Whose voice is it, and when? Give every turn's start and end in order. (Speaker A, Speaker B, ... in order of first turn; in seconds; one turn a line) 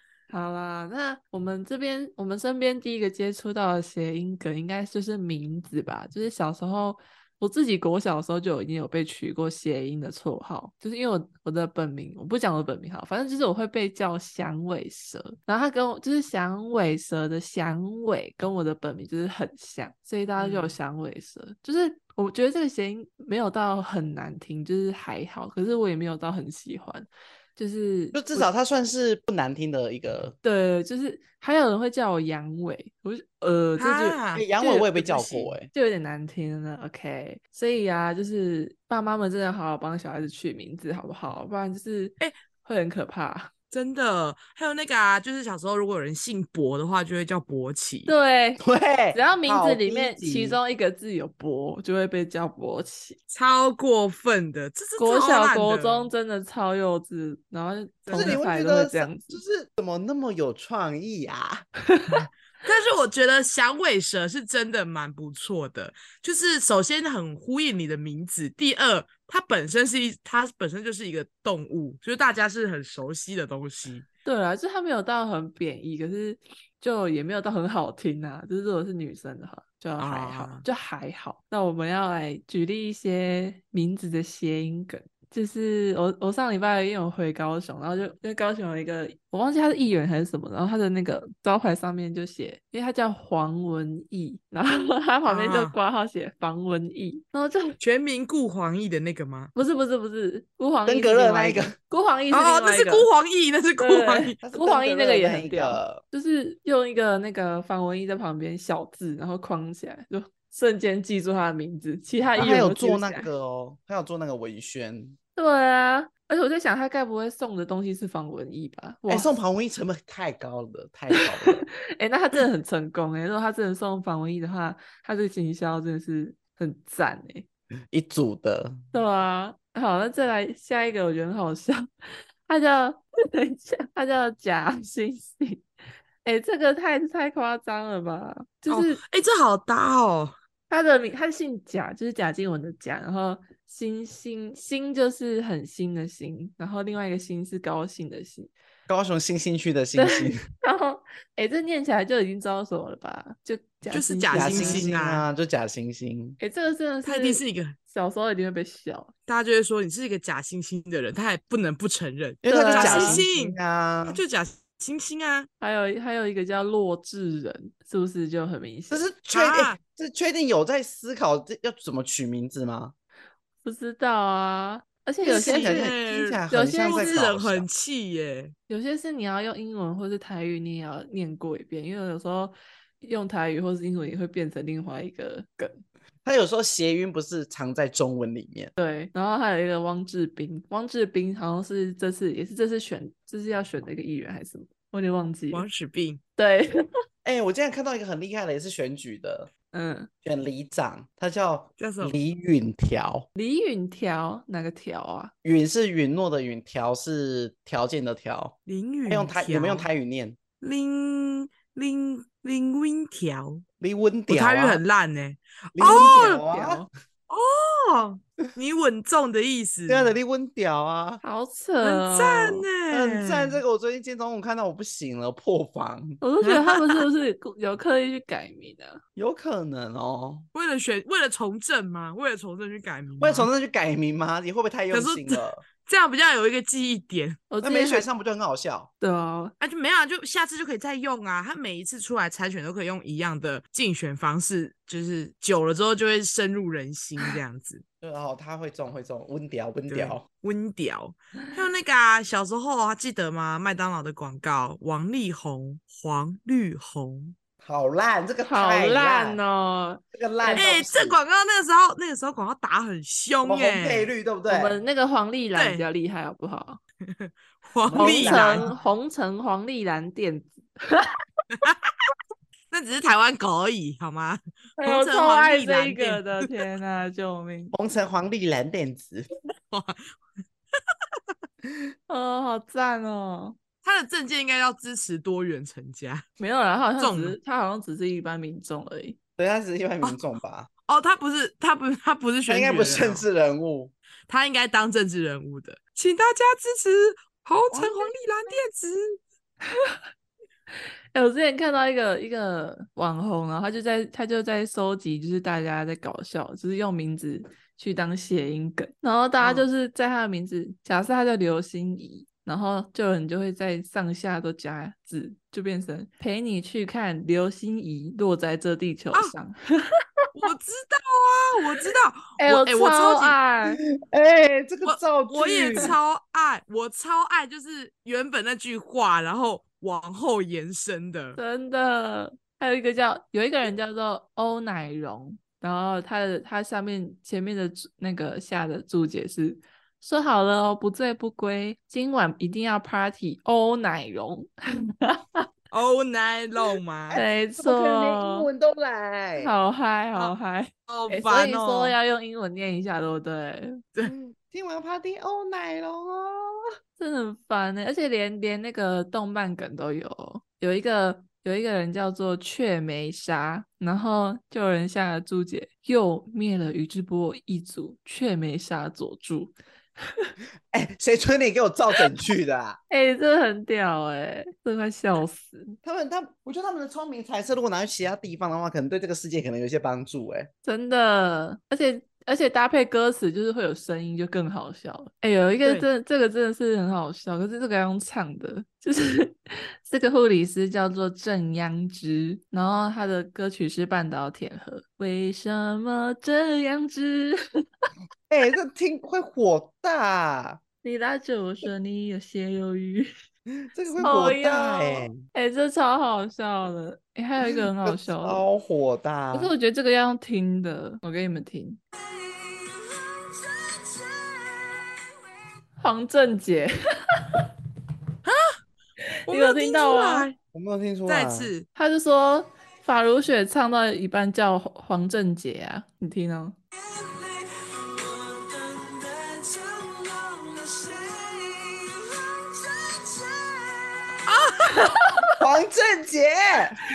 Speaker A: 0.3-28.5
Speaker B: 20.4-20.7
Speaker C: 28.1-30.3
Speaker A: 30.4-35.1
Speaker B: 33.8-34.5
Speaker C: 34.3-35.7
Speaker B: 35.0-35.5
Speaker A: 35.7-43.5
Speaker B: 43.7-48.1
Speaker A: 48.1-48.6
Speaker C: 48.6-50.6
Speaker A: 49.1-53.2
Speaker B: 53.3-56.1
Speaker A: 55.0-59.4
Speaker B: 58.0-58.4
Speaker C: 58.1-61.6
Speaker A: 61.9-62.2
Speaker B: 62.1-74.0
Speaker A: 74.2-97.7
Speaker B: 80.0-80.7
Speaker B: 95.2-95.7
Speaker B: 97.8-99.5
Speaker A: 99.5-103.1
Speaker C: 100.8-101.7
Speaker B: 102.3-104.4
Speaker A: 103.8-113.3
Speaker C: 104.4-106.0
Speaker C: 112.3-115.2
Speaker A: 115.3-119.3
Speaker C: 119.1-121.7
Speaker A: 121.2-127.5
Speaker C: 127.9-128.8
Speaker A: 128.9-131.9
Speaker A: 132.4-135.6
Speaker A: 136.2-139.0
Speaker B: 138.7-140.3
Speaker A: 140.7-148.5
Speaker C: 148.9-150.4
Speaker A: 149.9-154.9
Speaker B: 153.9-155.3
Speaker C: 154.3-156.4
Speaker A: 156.4-159.1
Speaker B: 157.0-157.7
Speaker B: 159.3-165.5
Speaker C: 162.4-164.2
Speaker A: 162.5-163.2
Speaker A: 165.6-169.1
Speaker C: 168.9-172.9
Speaker B: 169.3-169.8
Speaker A: 173.6-175.9
Speaker C: 175.2-177.7
Speaker B: 175.3-178.5
Speaker A: 176.5-177.3
Speaker A: 178.7-185.8
Speaker C: 186.2-188.7
Speaker A: 188.8-195.7
Speaker B: 195.5-196.2
Speaker A: 196.4-196.8
Speaker C: 197.2-199.5
Speaker A: 199.7-200.1
Speaker C: 200.2-203.3
Speaker B: 201.8-202.1
Speaker A: 203.3-205.3
Speaker C: 205.4-208.5
Speaker B: 208.7-209.9
Speaker C: 209.1-210.4
Speaker B: 210.6-213.6
Speaker C: 213.8-214.8
Speaker B: 214.3-216.4
Speaker C: 215.8-216.8
Speaker A: 215.8-216.9
Speaker B: 217.3-220.1
Speaker C: 219.9-221.2
Speaker A: 221.2-222.7
Speaker B: 221.8-223.6
Speaker C: 222.9-226.2
Speaker A: 226.2-229.0
Speaker B: 226.4-227.0
Speaker C: 229.2-230.4
Speaker B: 230.5-233.5
Speaker C: 233.2-235.6
Speaker B: 234.9-237.4
Speaker A: 237.5-238.1
Speaker C: 237.6-238.9
Speaker A: 239.0-239.5
Speaker B: 239.6-247.8
Speaker C: 248.0-250.2
Speaker B: 249.9-257.3
Speaker C: 257.6-259.4
Speaker A: 258.4-260.7
Speaker C: 260.1-261.2
Speaker B: 260.5-264.1
Speaker C: 263.4-264.8
Speaker A: 264.4-266.8
Speaker B: 265.6-265.9
Speaker B: 267.1-268.7
Speaker C: 267.9-268.7
Speaker A: 267.9-271.1
Speaker B: 271.6-271.9
Speaker B: 272.7-276.3
Speaker A: 274.8-277.7
Speaker C: 277.7-279.3
Speaker B: 279.7-280.1
Speaker A: 282.1-283.6
Speaker B: 283.8-286.2
Speaker A: 286.4-289.2
Speaker B: 287.0-287.4
Speaker C: 289.4-290.7
Speaker B: 290.8-293.2
Speaker C: 292.4-293.9
Speaker B: 294.3-299.2
Speaker C: 297.7-298.1
Speaker A: 299.7-300.0
Speaker A: 301.1-319.6
Speaker B: 309.4-309.7
Speaker B: 320.3-323.4
Speaker A: 322.4-323.8
Speaker C: 323.7-325.9
Speaker B: 324.8-331.4
Speaker A: 331.4-345.4
Speaker B: 345.7-347.2
Speaker C: 347.1-349.5
Speaker A: 347.1-348.5
Speaker A: 349.4-353.8
Speaker B: 350.9-352.0
Speaker C: 354.0-356.6
Speaker A: 357.0-370.3
Speaker C: 370.7-372.8
Speaker A: 372.9-375.8
Speaker C: 375.8-380.5
Speaker A: 380.6-397.4
Speaker C: 398.3-400.6
Speaker A: 400.8-403.1
Speaker C: 403.7-405.1
Speaker A: 404.0-408.4
Speaker C: 407.4-409.5
Speaker A: 409.3-411.8
Speaker A: 415.8-416.7
Speaker B: 418.2-418.6
Speaker B: 419.3-420.4
Speaker A: 419.3-420.3
Speaker C: 420.5-421.5
Speaker B: 421.1-421.7
Speaker A: 421.7-426.6
Speaker B: 428.1-430.9
Speaker B: 434.2-434.9
Speaker A: 434.6-435.3
Speaker C: 435.4-436.8